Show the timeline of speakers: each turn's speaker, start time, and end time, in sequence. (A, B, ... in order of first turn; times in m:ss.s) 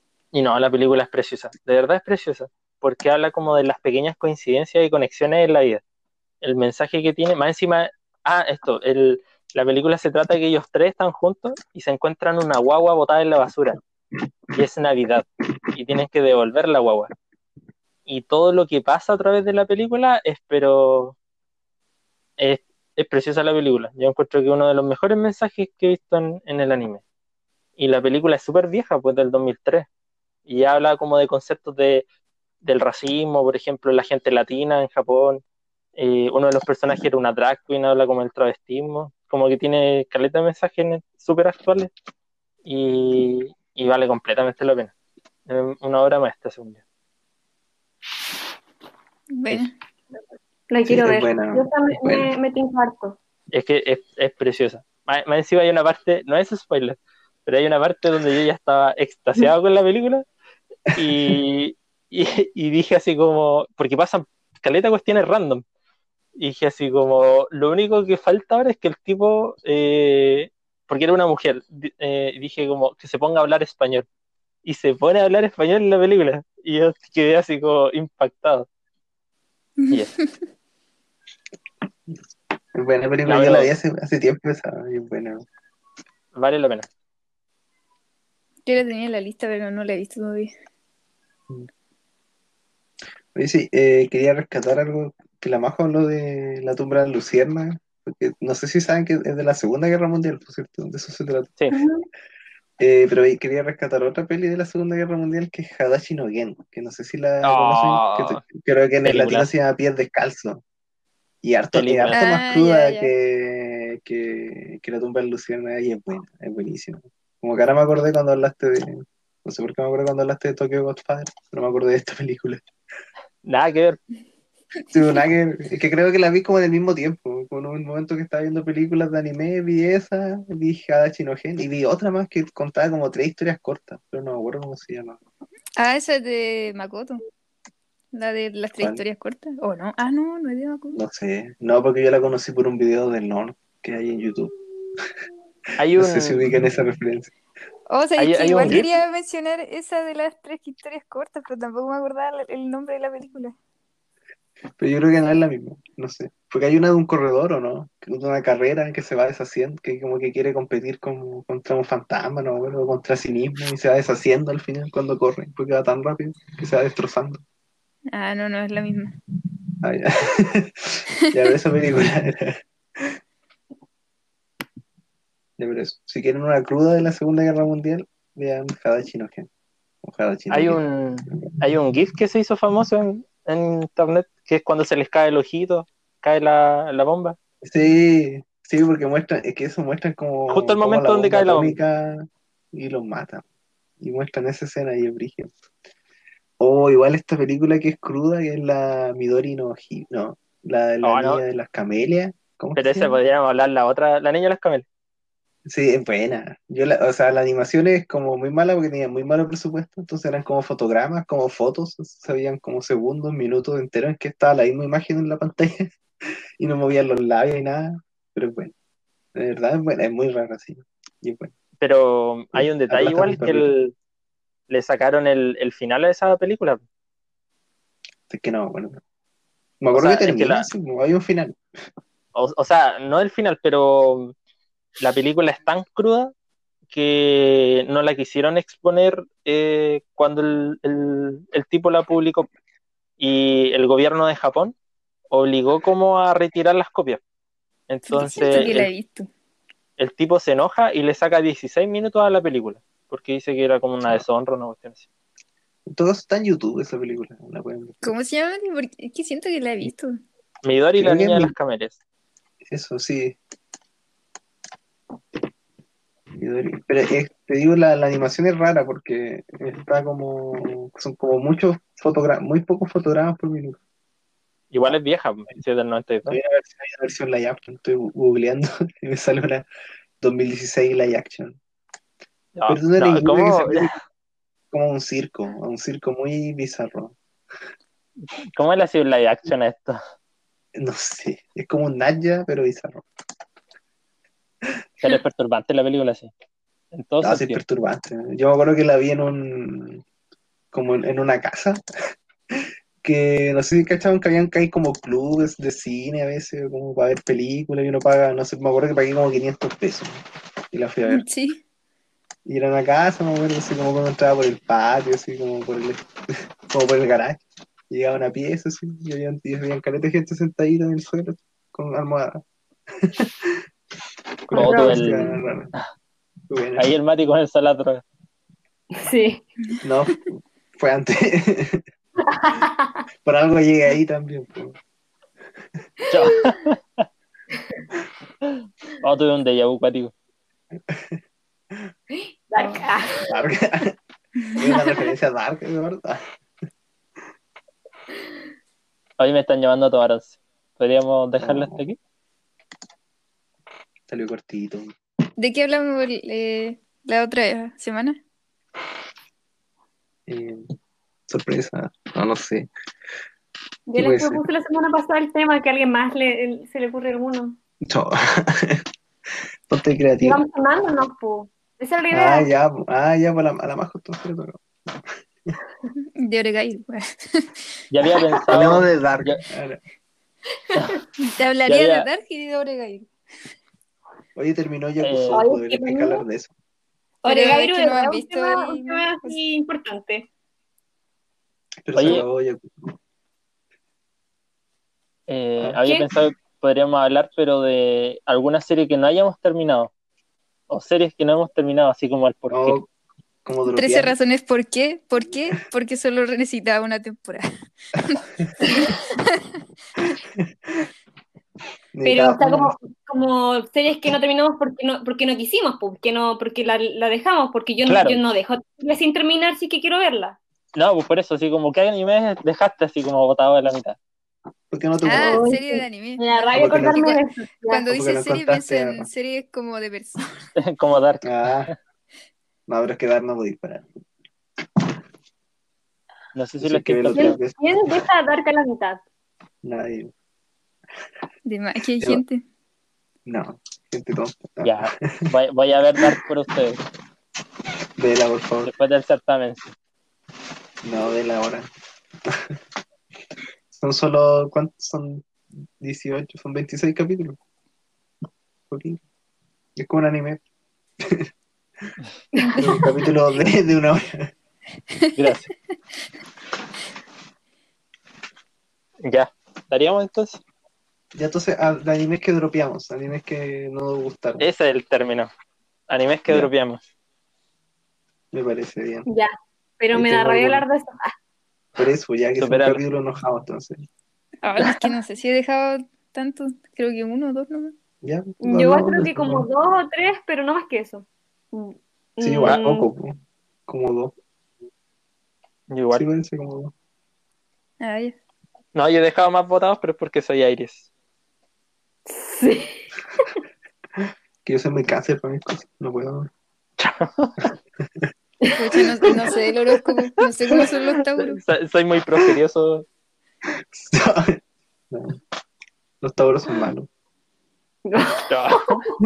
0:00.3-0:05.8 A
0:06.4-0:13.8 A
0:14.5-0:17.1 A
0:18.1-0:21.2 A
0:22.4-0:27.0 A
0:27.8-0:29.9 A
0:30.4-0:32.0 A
0:32.6-0:35.4 A
0:36.0-0:41.9 A
0:42.6-0:44.9 A
0:45.5-0:46.8 A
0:49.4-0:49.7 B
0:50.7-0:53.2 C
0:50.8-0:52.3 D
0:53.5-1:00.2 A
1:00.9-1:01.4 D
1:00.9-1:05.6 A
1:06.4-1:14.1 A
1:14.6-1:18.7 A
1:19.8-1:20.2 B
1:22.7-1:25.4 D
1:23.2-1:23.7 A
1:26.3-1:26.9 A
1:28.6-1:30.5 B
1:33.3-1:41.5 D
1:41.7-1:42.0 C
1:42.8-1:50.6 D
1:47.4-1:48.4 A
1:49.0-1:49.5 A
1:51.4-2:02.6 D
1:51.7-1:52.2 A
1:52.1-1:53.1 B
2:03.4-2:04.0 A
2:04.9-2:15.2 D
2:15.8-2:17.2 B
2:18.1-2:21.0 B
2:18.8-2:19.0 D
2:20.9-2:24.5 D
2:25.8-2:26.4 A
2:26.0-2:27.3 D
2:27.9-2:33.5 B
2:28.2-2:28.8 A
2:34.8-2:47.4 D
2:48.1-2:49.1 B
2:49.8-2:53.1 D
2:55.6-2:59.5 D
3:00.0-3:00.8 D
3:00.5-3:07.4 A
3:07.6-3:13.4 D
3:10.5-3:11.8 A
3:14.0-3:15.5 D
3:16.6-3:23.2 D
3:21.0-3:21.4 A
3:22.8-3:24.8 A
3:25.7-3:35.9 D
3:36.6-3:38.7 D
3:39.3-3:41.5 D
3:41.8-3:43.9 A
3:42.5-3:43.7 D
3:44.7-3:46.8 A
3:48.3-3:49.0 D
3:49.8-3:51.6 D
3:49.9-3:50.7 A
3:52.3-3:54.3 A
3:55.0-3:56.3 A
3:56.9-4:02.5 A
4:03.2-4:04.7 A
4:05.3-4:07.2 A
4:07.9-4:08.9 A
4:08.1-4:09.3 B
4:10.0-4:15.0 A
4:15.8-4:18.1 D
4:18.0-4:20.2 B
4:20.6-4:21.9 A
4:21.0-4:21.5 D
4:22.6-4:23.4 D
4:26.4-4:33.8 D
4:34.7-4:36.4 A
4:36.3-4:39.6 D
4:40.2-4:41.6 D
4:42.6-4:43.9 A
4:42.7-4:43.9 D
4:44.7-4:47.2 D
4:48.6-4:50.0 A
4:50.8-4:53.0 D
4:55.0-4:56.3 A
4:56.9-4:57.6 A
4:57.2-5:00.0 D
5:00.7-5:01.8 D
5:02.5-5:10.2 D
5:10.7-5:11.2 D
5:11.0-5:11.6 B
5:12.4-5:22.4 D
5:23.0-5:23.6 D
5:24.5-5:25.7 D
5:24.5-5:25.8 A
5:24.5-5:25.2 C
5:26.5-5:26.9 D
5:26.8-5:28.0 A
5:29.0-5:29.4 C
5:29.8-5:31.8 D
5:32.2-5:33.0 C
5:33.2-5:34.8 D
5:36.1-5:37.1 A
5:36.3-5:36.6 C
5:38.4-5:40.1 A
5:40.8-5:41.2 D
5:42.5-5:43.3 C
5:42.5-5:43.9 D
5:44.5-5:46.3 D
5:44.7-5:45.1 C
5:49.2-5:52.0 A
5:51.4-5:51.8 D
5:54.1-5:54.9 D
5:55.4-5:58.2 B
6:00.3-6:00.7 D
6:01.3-6:02.7 D
6:03.9-6:07.6 C
6:04.0-6:04.4 D
6:07.8-6:08.8 D
6:09.7-6:10.4 D
6:10.2-6:12.5 C
6:12.1-6:15.6 D
6:16.2-6:17.8 B
6:17.9-6:19.4 A
6:18.5-6:19.8 D
6:20.7-6:21.0 C
6:21.2-6:23.1 B
6:21.6-6:22.1 A
6:24.4-6:26.5 D
6:25.0-6:25.4 A
6:25.3-6:26.2 C
6:27.2-6:30.3 C
6:27.3-6:29.4 B
6:31.8-6:32.9 D
6:31.9-6:32.2 A
6:35.3-6:39.9 A
6:40.7-6:42.8 A
6:42.5-6:42.9 D
6:43.4-6:44.2 D
6:43.7-6:47.4 B
6:48.0-6:49.6 B
6:48.6-6:48.9 C
6:50.0-6:50.9 D
6:51.9-6:52.7 D
6:52.0-7:00.4 C
6:57.9-6:58.2 A
7:00.8-7:04.0 A
7:04.7-7:05.5 D
7:05.0-7:07.8 C
7:05.0-7:10.4 B
7:06.5-7:07.0 D
7:07.9-7:09.1 D
7:10.6-7:11.7 A
7:11.2-7:11.7 D
7:12.7-7:13.8 D
7:16.3-7:17.4 A
7:16.6-7:18.0 D
7:17.1-7:19.0 C
7:19.6-7:20.1 D
7:21.4-7:22.4 B
7:23.2-7:25.3 D
7:24.6-7:26.8 A
7:28.0-7:28.7 D
7:28.6-7:29.7 A
7:30.8-7:31.7 D
7:32.2-7:32.6 D
7:33.7-7:37.4 D
7:38.7-7:39.0 D
7:39.8-7:40.4 D
7:41.0-7:41.3 D
7:42.3-7:43.0 C
7:42.6-7:44.3 D
7:45.2-7:45.5 A
7:49.0-7:50.4 A
7:51.1-7:54.4 D
7:54.4-7:55.3 A
7:55.9-7:56.8 A
7:58.3-7:59.0 D
7:59.1-8:01.1 C
7:59.9-8:00.6 D
8:01.8-8:03.8 D
8:02.4-8:02.8 A
8:04.4-8:07.7 B
8:08.0-8:09.4 D
8:08.4-8:12.9 C
8:12.2-8:14.1 D
8:15.7-8:16.0 A
8:15.9-8:16.7 D
8:17.8-8:18.1 B
8:18.7-8:20.9 A
8:22.1-8:23.3 C
8:24.0-8:26.3 D
8:26.8-8:27.5 A
8:27.8-8:28.1 D
8:28.4-8:29.8 C
8:28.6-8:31.4 B
8:31.2-8:32.9 A
8:33.7-8:35.2 D
8:36.0-8:36.9 D
8:37.8-8:39.0 C
8:38.3-8:38.8 A